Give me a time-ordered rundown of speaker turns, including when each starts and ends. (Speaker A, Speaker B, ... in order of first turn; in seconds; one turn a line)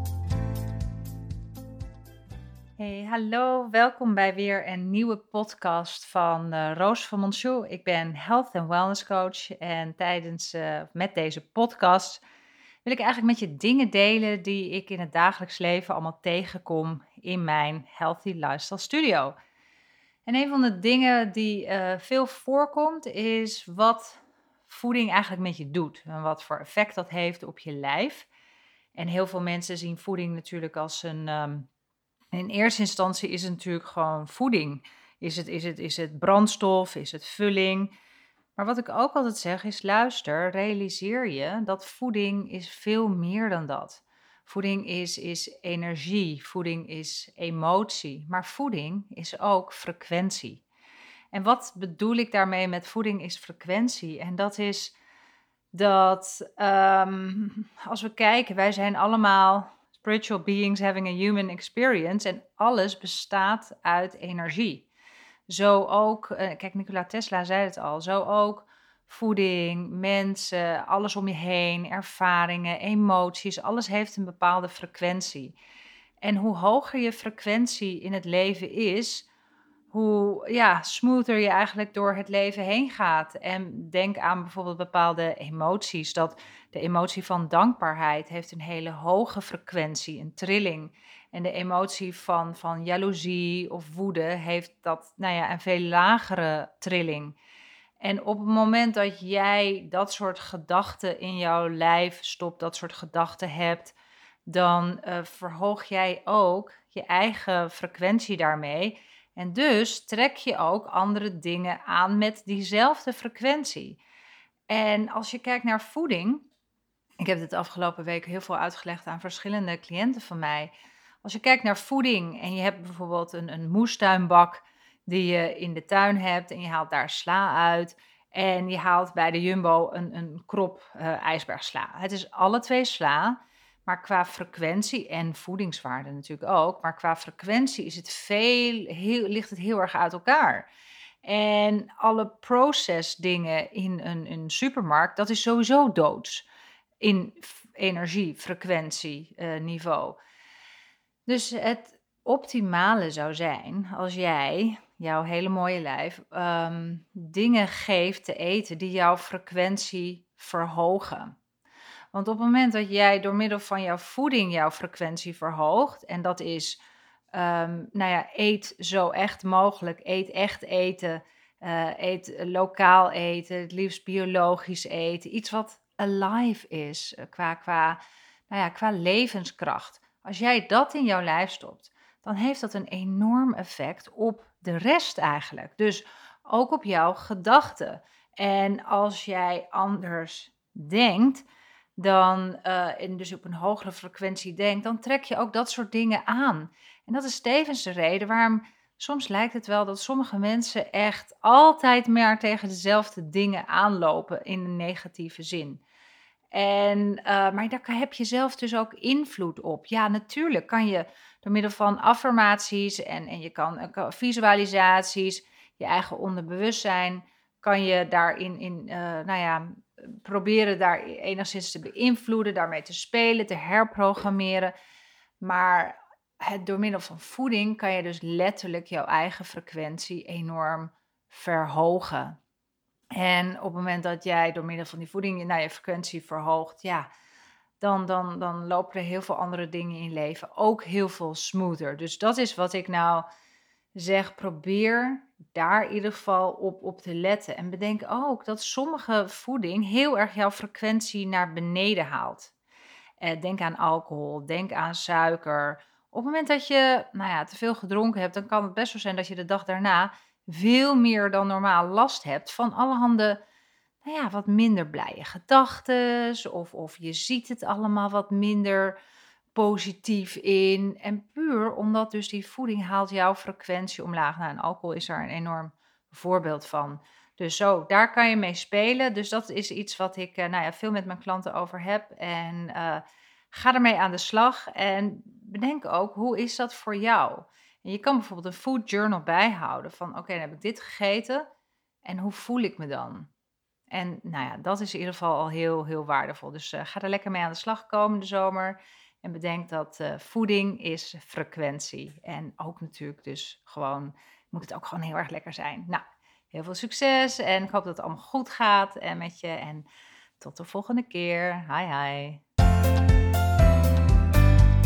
Speaker A: 2.8-12.2
Speaker A: 12.8-19.4
Speaker A: 20.2-28.3
Speaker A: 28.9-31.7
Speaker A: 32.3-37.9
Speaker A: 38.5-50.6
Speaker A: 51.3-54.9
Speaker A: 55.7-64.9
Speaker A: 65.5-75.5
Speaker A: 76.2-79.3
Speaker A: 79.9-97.3
Speaker A: 98.0-103.9
Speaker A: 104.5-114.0
Speaker A: 114.7-116.4
Speaker A: 117.2-120.7
Speaker A: 121.2-140.7
Speaker A: 141.2-146.4
Speaker A: 147.0-150.2
Speaker A: 151.2-161.3
Speaker A: 162.1-166.8
Speaker A: 167.3-191.4
Speaker A: 192.0-205.8
Speaker A: 206.5-224.7
Speaker A: 225.4-232.4
Speaker A: 233.1-237.1
Speaker A: 237.8-243.2
Speaker A: 243.9-252.5
Speaker A: 253.2-263.4
Speaker A: 264.0-269.0
Speaker A: 269.5-291.5
Speaker A: 292.0-293.3
Speaker A: 293.9-309.9
Speaker A: 310.4-312.4